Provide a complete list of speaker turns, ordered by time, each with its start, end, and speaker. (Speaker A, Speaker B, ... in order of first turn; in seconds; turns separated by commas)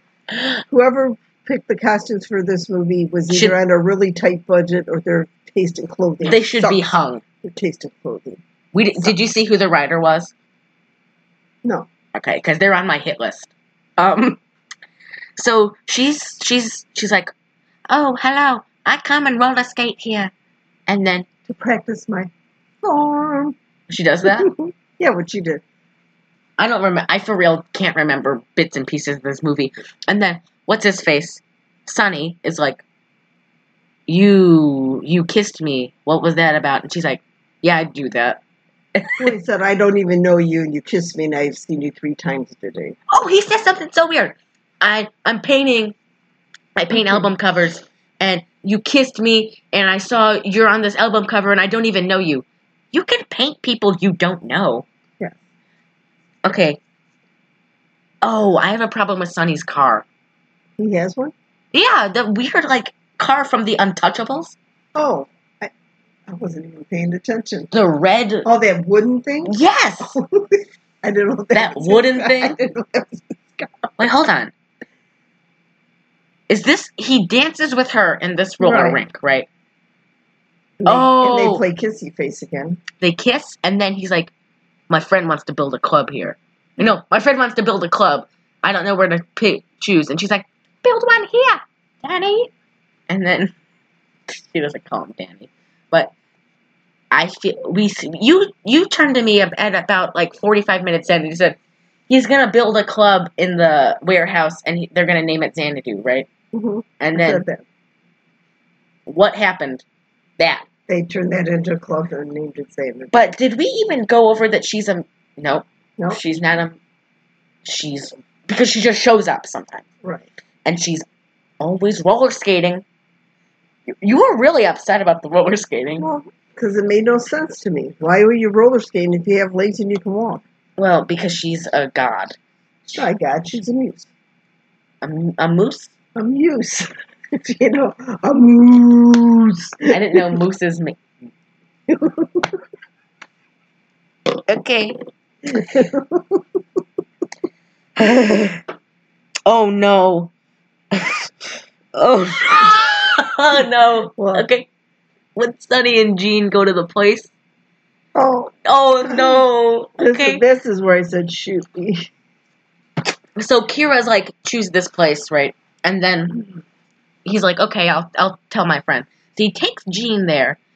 Speaker A: 0.7-6.9, Speaker B: 3.3-3.5, Speaker B: 6.2-7.2, Speaker A: 7.4-8.4, Speaker B: 8.7-10.3, Speaker B: 12.1-14.4, Speaker B: 15.4-17.3, Speaker B: 17.9-20.3, Speaker B: 20.9-21.3, Speaker A: 21.5-22.3, Speaker A: 22.8-23.6, Speaker B: 23.9-24.5, Speaker A: 24.2-25.6, Speaker B: 26.6-32.8, Speaker B: 34.1-38.4, Speaker B: 39.0-39.3, Speaker A: 39.2-43.0, Speaker B: 43.1-45.9, Speaker B: 46.8-54.9, Speaker A: 46.9-47.3, Speaker B: 56.4-56.8, Speaker B: 58.2-60.0, Speaker A: 60.8-61.3, Speaker B: 61.7-64.5, Speaker A: 64.9-65.7, Speaker A: 66.3-67.7, Speaker B: 67.7-68.5, Speaker A: 68.4-73.9, Speaker B: 69.4-70.2, Speaker B: 71.5-72.6, Speaker B: 74.0-74.5, Speaker B: 76.5-79.5, Speaker A: 78.6-79.0, Speaker A: 80.8-82.8, Speaker B: 80.8-81.6, Speaker B: 83.0-84.3, Speaker B: 84.9-92.5, Speaker B: 93.1-93.5, Speaker B: 94.3-96.1, Speaker B: 97.1-101.6, Speaker B: 102.1-106.3, Speaker A: 106.5-107.6, Speaker B: 107.0-107.4, Speaker B: 109.1-109.8, Speaker B: 110.4-110.6, Speaker A: 110.9-113.3, Speaker B: 113.1-116.8, Speaker B: 117.6-119.8, Speaker B: 120.6-121.0, Speaker B: 121.6-122.8, Speaker B: 123.9-126.1, Speaker A: 126.0-130.4, Speaker B: 130.8-133.1, Speaker A: 133.0-134.1, Speaker B: 135.0-135.9, Speaker A: 136.1-140.4, Speaker B: 139.9-141.0, Speaker A: 141.9-142.6, Speaker B: 144.5-145.0, Speaker A: 145.4-146.6, Speaker B: 148.0-148.6, Speaker B: 149.4-150.3, Speaker B: 150.9-151.3, Speaker B: 151.9-154.7, Speaker A: 154.2-154.5, Speaker B: 155.3-157.3, Speaker A: 158.1-159.4, Speaker B: 158.6-160.4, Speaker A: 160.0-162.1, Speaker B: 163.3-166.4, Speaker B: 167.2-170.6